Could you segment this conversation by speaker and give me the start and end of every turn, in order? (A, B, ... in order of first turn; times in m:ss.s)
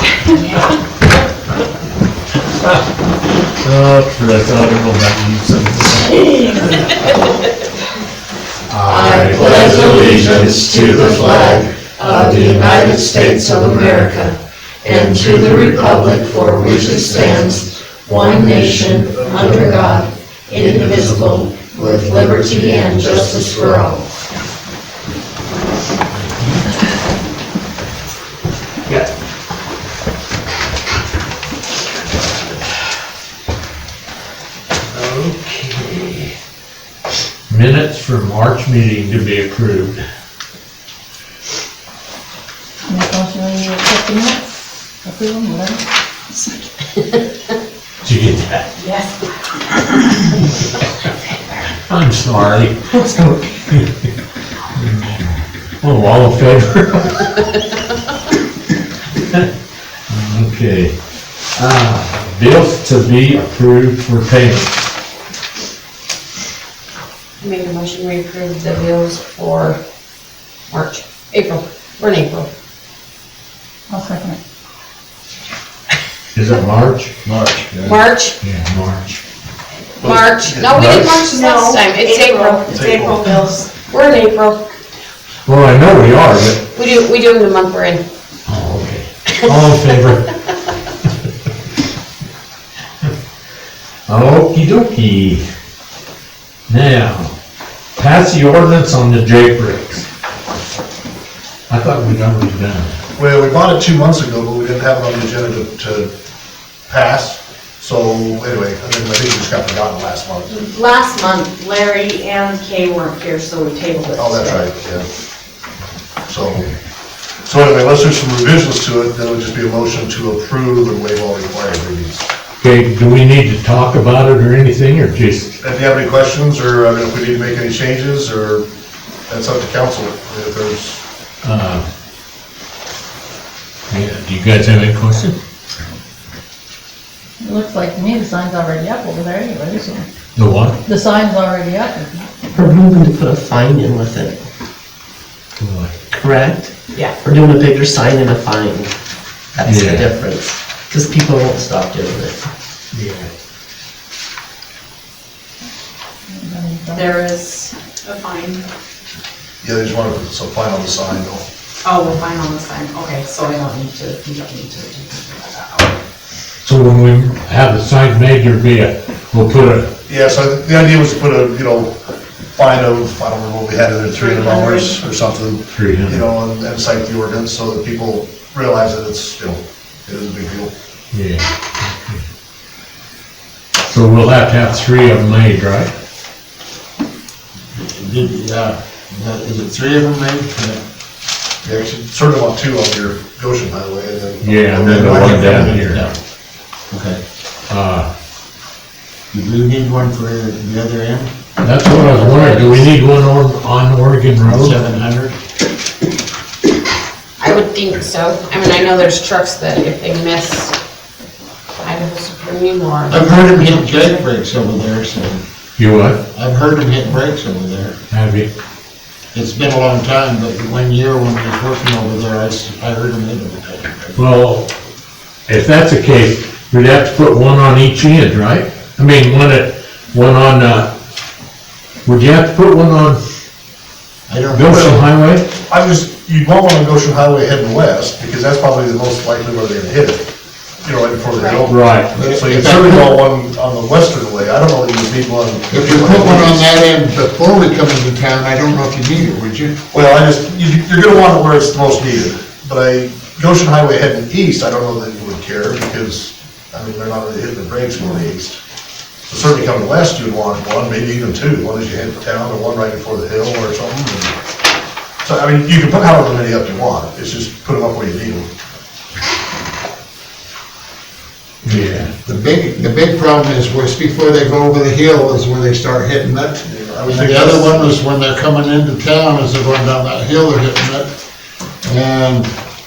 0:03.6-0:07.1 A
0:08.7-0:12.7 A
0:08.9-0:24.1 B
0:26.1-0:26.8 A
0:32.1-0:32.7 A
0:34.9-0:36.3 A
0:37.5-0:40.0 A
0:42.9-0:46.5 C
0:48.0-0:48.7 A
0:48.8-0:49.1 D
0:51.9-0:54.0 A
0:54.8-0:57.2 A
1:00.1-1:00.9 A
1:01.6-1:04.8 A
1:07.4-1:09.8 E
1:10.7-1:12.5 E
1:13.9-1:14.4 C
1:16.4-1:17.1 A
1:17.2-1:18.0 F
1:17.8-1:18.4 E
1:18.4-1:19.2 A
1:20.0-1:20.9 G
1:20.0-1:22.7 E
1:20.7-1:21.2 A
1:21.5-1:23.6 D
1:22.7-1:23.4 G
1:23.9-1:24.8 E
1:25.5-1:26.6 A
1:26.7-1:28.0 E
1:28.5-1:30.3 A
1:34.1-1:35.4 A
1:36.7-1:37.3 A
1:38.0-1:40.1 A
1:41.7-1:43.0 A
1:43.2-1:46.1 G
1:46.9-1:50.5 G
1:50.5-1:54.6 D
1:54.2-1:55.0 G
1:56.3-1:56.7 G
1:57.5-2:02.3 G
2:02.6-2:05.5 A
2:05.6-2:08.7 G
2:09.3-2:11.0 G
2:11.4-2:11.8 A
2:13.9-2:15.4 A
2:17.4-2:20.1 C
2:20.4-2:20.8 A
2:20.9-2:22.3 C
2:22.6-2:24.4 H
2:25.6-2:25.9 A
2:26.1-2:26.7 H
2:27.2-2:28.9 H
2:29.5-2:32.5 H
2:29.6-2:30.2 A
2:32.9-2:33.3 A
2:36.3-2:37.1 C
2:37.0-2:38.6 D
2:39.6-2:41.5 G
2:41.8-2:45.9 D
2:46.6-2:49.9 A
2:50.1-2:52.0 G
2:52.6-3:00.7 G
2:54.1-2:55.0 D
2:55.7-2:56.2 A
3:01.1-3:02.2 A
3:03.9-3:05.9 A
3:07.8-3:10.8 F
3:11.6-3:15.8 G
3:14.4-3:16.0 A
3:14.8-3:16.2 F
3:16.9-3:17.2 F
3:17.7-3:18.1 A
3:19.3-3:21.3 F
3:21.6-3:24.8 A
3:22.0-3:22.8 E
3:24.4-3:25.4 F
3:27.4-3:30.8 E
3:31.8-3:34.2 E
3:33.1-3:35.4 F
3:35.8-3:36.2 A
3:36.3-3:38.0 F
3:38.1-3:38.5 A
3:39.3-3:44.2 F
3:44.2-3:44.7 A
3:45.5-3:50.9 A
3:52.0-3:53.2 A
3:54.3-3:55.1 F
3:54.5-3:55.5 A
3:55.7-4:00.3 G
4:00.8-4:06.7 G
4:01.4-4:01.7 E
4:01.7-4:02.1 A
4:02.1-4:03.2 F
4:05.7-4:09.8 F
4:09.9-4:18.6 G
4:19.3-4:24.3 G
4:25.2-4:28.5 G
4:31.6-4:32.1 A
4:31.7-4:41.1 F
4:36.7-4:38.0 G
4:41.8-4:42.5 F